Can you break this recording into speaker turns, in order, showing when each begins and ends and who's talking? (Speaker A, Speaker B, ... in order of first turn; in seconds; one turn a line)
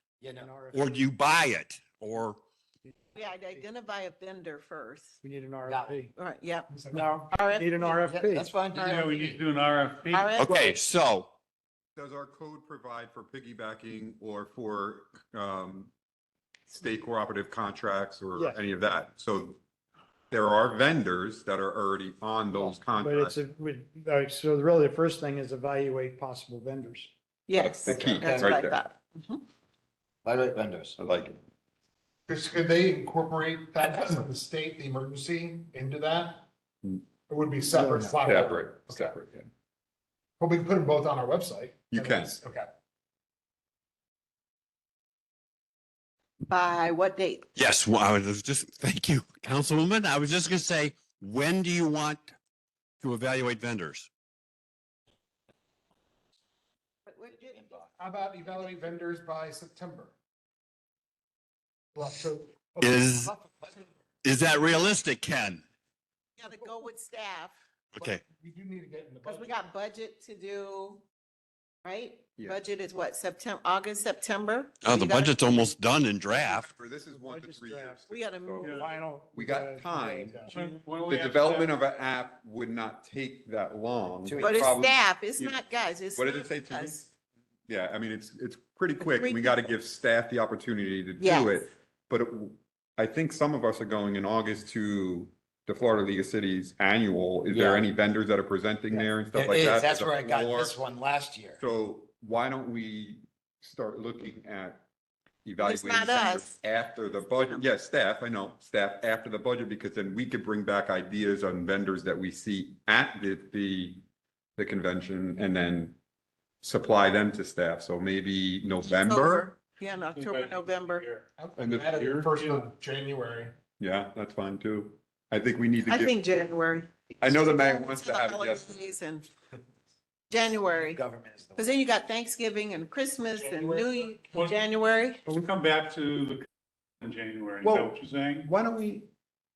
Speaker A: 0.2-0.6
Speaker B: 0.4-1.1
Speaker C: 0.7-2.4
Speaker D: 3.1-5.2
Speaker B: 5.2-6.1
Speaker A: 5.7-6.1
Speaker D: 6.2-6.7
Speaker E: 6.7-7.3
Speaker B: 6.9-8.5
Speaker D: 7.3-8.0
Speaker A: 7.9-9.4
Speaker F: 8.8-10.4
Speaker D: 10.1-10.8
Speaker C: 10.4-11.4
Speaker G: 12.0-15.9
Speaker G: 16.7-19.6
Speaker B: 18.4-18.6
Speaker G: 20.3-23.3
Speaker B: 22.9-27.1
Speaker D: 27.5-29.4
Speaker G: 27.6-28.8
Speaker A: 27.9-28.6
Speaker A: 30.2-31.0
Speaker G: 31.0-31.4
Speaker E: 32.3-36.5
Speaker E: 37.3-39.1
Speaker A: 37.7-38.2
Speaker G: 38.2-39.5
Speaker E: 40.4-42.7
Speaker G: 41.9-42.3
Speaker D: 46.5-47.5
Speaker C: 47.6-52.4
Speaker C: 53.0-54.1
Speaker D: 57.1-58.7
Speaker A: 57.5-57.8
Speaker E: 58.0-60.1
Speaker E: 62.0-63.1
Speaker C: 62.8-63.3
Speaker A: 63.1-63.9
Speaker C: 64.2-65.6
Speaker D: 66.4-67.6
Speaker C: 67.9-68.2
Speaker E: 68.0-69.6
Speaker D: 69.2-71.0
Speaker D: 71.8-75.7
Speaker C: 74.8-76.7
Speaker G: 76.4-80.4
Speaker B: 77.1-78.1
Speaker D: 78.1-78.8
Speaker F: 78.6-78.9
Speaker B: 78.7-80.7
Speaker F: 80.5-81.8
Speaker G: 81.0-87.1
Speaker A: 84.2-84.8
Speaker D: 84.4-87.1
Speaker G: 87.7-100.8
Speaker D: 89.0-89.6
Speaker D: 91.2-91.7
Speaker A: 97.5-97.9
Speaker A: 98.9-101.6
Speaker G: 101.6-104.8
Speaker G: 105.5-114.0
Speaker D: 105.6-106.6
Speaker D: 107.3-107.6
Speaker G: 114.6-116.0
Speaker G: 116.6-119.5
Speaker D: 118.9-121.1
Speaker F: 120.1-121.3
Speaker E: 121.4-123.5
Speaker G: 121.6-122.0
Speaker F: 121.9-122.7
Speaker G: 123.8-126.2
Speaker D: 125.9-129.3
Speaker G: 127.2-128.8
Speaker D: 130.3-131.0
Speaker A: 130.8-131.7
Speaker D: 131.6-135.2
Speaker F: 134.2-134.6
Speaker F: 135.2-136.5
Speaker F: 137.0-138.5
Speaker G: 137.6-139.1